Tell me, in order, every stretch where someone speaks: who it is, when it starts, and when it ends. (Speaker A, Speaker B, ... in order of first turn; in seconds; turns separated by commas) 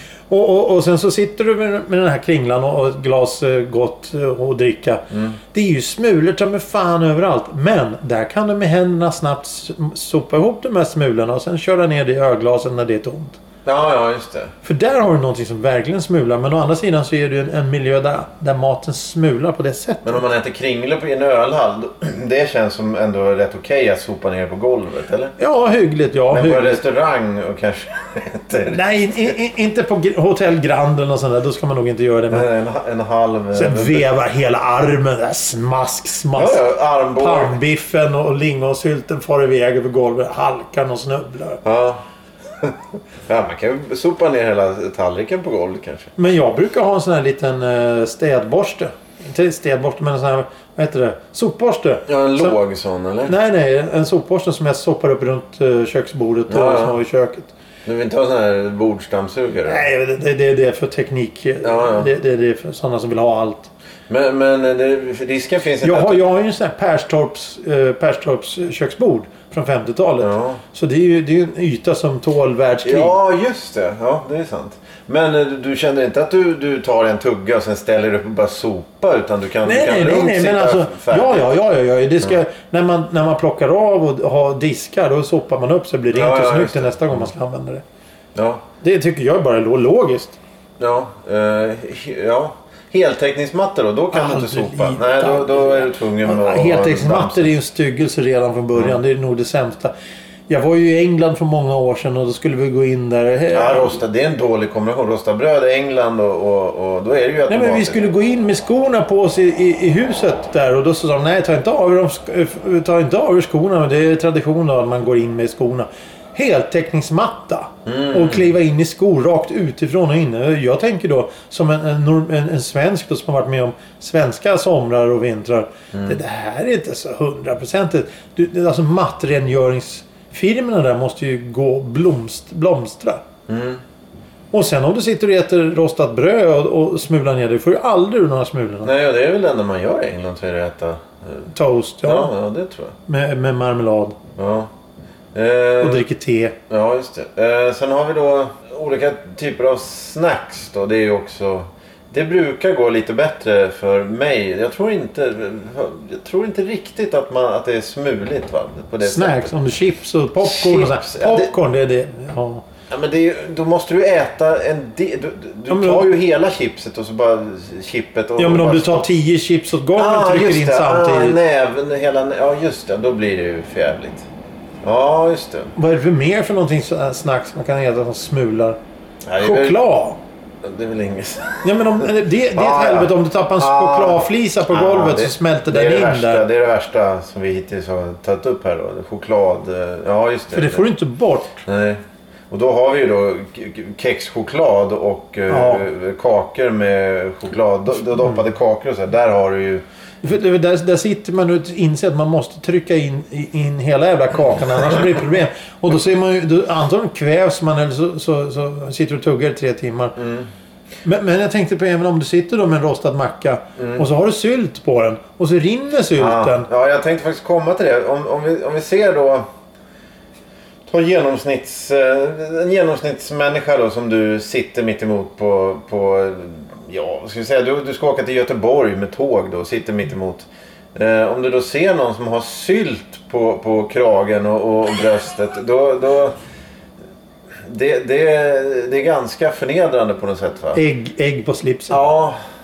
Speaker A: 0.3-13.4, Speaker B: 5.1-5.4, Speaker B: 13.6-14.5, Speaker A: 14.6-20.2, Speaker B: 20.0-25.3, Speaker A: 25.4-26.8, Speaker B: 26.3-28.8, Speaker A: 28.7-32.5, Speaker B: 32.3-34.0, Speaker A: 33.5-41.6, Speaker B: 36.3-37.6, Speaker B: 41.6-42.0, Speaker B: 43.3-46.1, Speaker A: 46.1-52.5, Speaker B: 52.1-53.3, Speaker A: 53.3-57.5, Speaker B: 56.5-57.0, Speaker B: 57.8-59.8, Speaker A: 59.6-63.7, Speaker B: 61.6-62.1, Speaker B: 64.1-66.2, Speaker A: 65.8-73.1, Speaker B: 70.2-70.6, Speaker B: 72.8-81.5, Speaker A: 79.6-87.8, Speaker B: 86.1-87.3, Speaker B: 88.3-88.6, Speaker A: 88.8-90.4, Speaker B: 90.8-97.5, Speaker A: 94.1-99.9, Speaker A: 100.5-104.0, Speaker B: 103.5-108.0, Speaker A: 107.5-133.2, Speaker B: 117.8-118.5, Speaker B: 133.5-133.8, Speaker A: 134.5-138.9, Speaker B: 138.8-141.5, Speaker A: 141.5-142.3, Speaker B: 142.0-142.9, Speaker A: 143.1-144.2, Speaker B: 144.4-144.7, Speaker B: 145.3-146.0, Speaker A: 145.8-146.5, Speaker B: 146.7-159.5, Speaker A: 159.0-162.6, Speaker B: 160.4-161.5, Speaker B: 162.9-169.1, Speaker A: 165.7-166.1, Speaker A: 168.4-171.4, Speaker B: 169.9-174.2, Speaker B: 174.8-175.7, Speaker A: 175.7-178.8, Speaker B: 179.2-179.8, Speaker A: 179.4-180.2, Speaker B: 180.6-190.9, Speaker A: 181.6-186.4, Speaker A: 190.5-191.5, Speaker B: 191.6-192.0, Speaker B: 192.5-199.8, Speaker A: 195.5-195.8, Speaker A: 198.2-198.4, Speaker A: 200.2-210.2, Speaker B: 210.2-210.5, Speaker A: 211.0-216.7, Speaker B: 213.8-214.0, Speaker B: 216.2-219.4, Speaker B: 220.9-236.3, Speaker B: 237.7-240.8, Speaker A: 240.7-242.0, Speaker B: 241.9-242.4